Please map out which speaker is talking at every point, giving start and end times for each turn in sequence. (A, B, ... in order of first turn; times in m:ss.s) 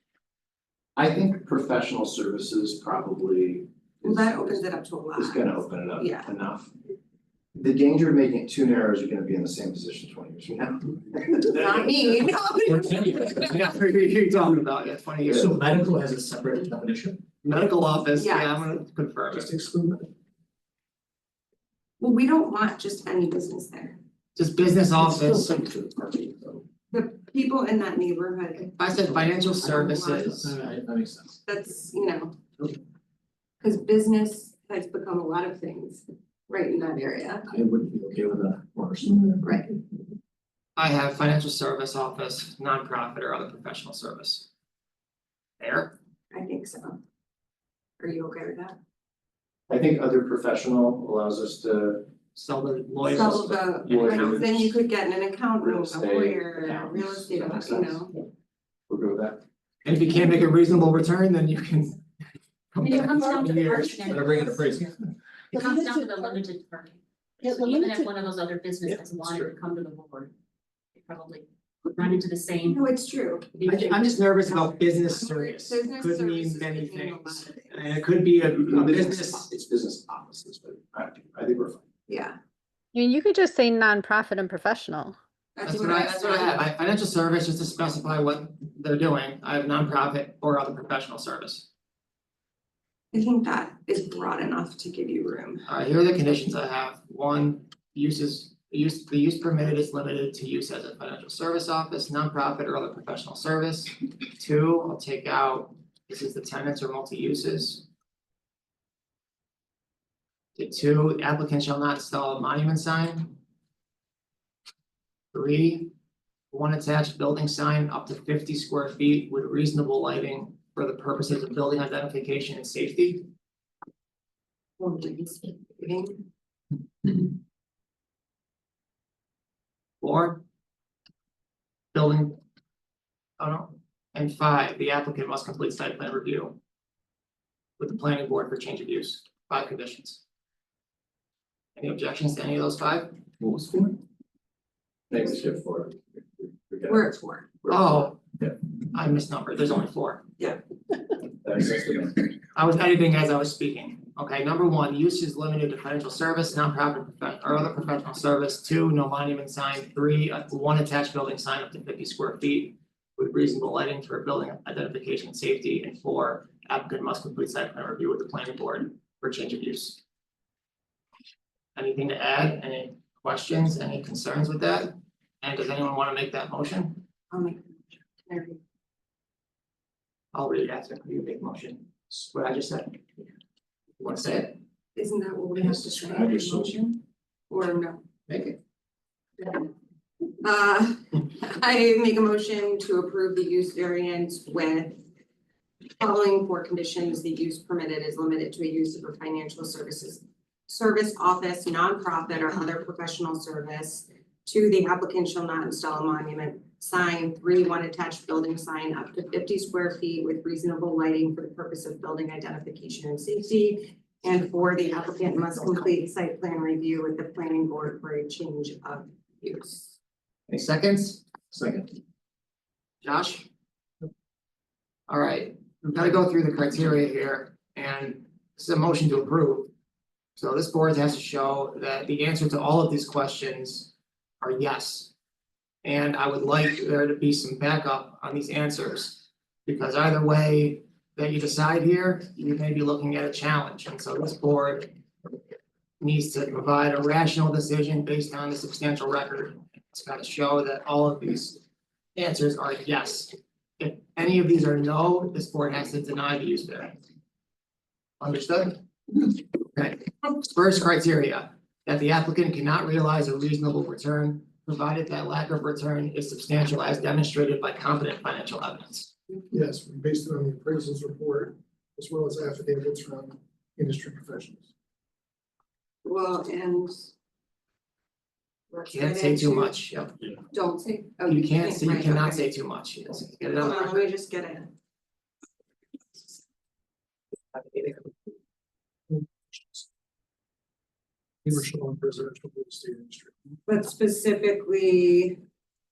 0:01.0-0:04.6 A
0:04.0-0:06.3 B
0:05.2-0:06.7 A
0:07.5-0:12.3 A
0:11.5-0:13.2 B
0:12.8-0:13.2 C
0:13.0-0:15.6 D
0:15.3-0:15.6 A
0:15.4-0:17.2 C
0:17.4-0:19.6 D
0:18.2-0:18.6 B
0:19.3-0:20.1 E
0:22.0-0:24.0 B
0:24.4-0:25.6 D
0:25.2-0:25.7 C
0:25.7-0:26.6 A
0:26.9-0:30.4 B
0:28.7-0:30.6 D
0:30.5-0:31.2 A
0:30.5-0:31.0 C
0:31.5-0:32.4 B
0:33.6-0:37.5 B
0:37.6-0:39.1 C
0:38.6-0:39.2 A
0:39.4-0:39.7 B
0:40.8-0:44.5 D
0:45.6-0:46.0 D
0:46.3-0:47.0 B
0:48.0-0:48.8 B
0:49.7-0:52.1 A
0:52.4-0:54.5 D
0:53.0-0:58.1 B
0:53.2-0:54.7 A
0:55.6-0:58.1 A
0:58.9-0:59.4 A
0:59.8-1:02.0 D
1:02.7-1:04.2 D
1:02.8-1:04.9 F
1:03.0-1:04.4 G
1:04.3-1:04.7 A
1:05.5-1:10.3 F
1:05.5-1:06.3 G
1:07.4-1:08.1 G
1:11.0-1:12.8 F
1:12.6-1:14.0 B
1:13.6-1:19.4 D
1:14.5-1:18.0 B
1:18.7-1:21.8 A
1:22.1-1:22.4 B
1:22.9-1:25.2 G
1:25.6-1:26.7 B
1:25.6-1:31.7 D
1:33.1-1:35.7 B
1:35.7-1:47.9 D
1:50.6-1:53.4 D
1:55.3-1:55.9 D
1:56.5-2:03.3 D
2:04.8-2:06.2 B
2:10.0-2:10.4 D
2:11.9-2:12.4 D
2:13.4-2:16.6 D
2:17.8-2:20.2 D
2:21.8-2:23.2 D
2:23.4-2:23.9 A
2:25.1-2:27.0 A
2:26.9-2:27.5 B
2:27.6-2:28.5 A
2:27.7-2:28.2 D
2:28.9-2:30.3 D
2:31.4-2:32.3 A
2:32.6-2:50.0 D
2:51.8-2:57.0 D
2:57.3-2:58.6 B
3:00.3-3:03.1 D
3:04.0-3:04.6 D
3:05.0-3:08.0 B
3:06.1-3:06.7 A
3:08.3-3:08.6 D
3:09.4-3:09.7 B
3:10.4-3:15.0 B
3:16.0-3:40.0 B
3:40.5-3:41.9 D
3:43.0-3:43.5 D
3:45.1-3:49.7 D
3:50.4-3:55.1 D
3:55.8-4:04.9 D
4:06.0-4:11.6 D
4:12.2-4:16.9 D
4:18.2-4:18.8 D
4:19.6-4:29.1 D
4:29.5-4:34.7 E
4:36.0-4:37.1 B
4:38.7-4:39.8 B
4:38.9-4:40.1 D
4:40.5-4:42.5 B
4:41.3-4:44.1 D
4:43.6-4:44.7 B
4:47.5-4:48.1 D
4:49.1-4:49.8 E
4:51.4-4:53.6 E
4:53.7-4:55.4 B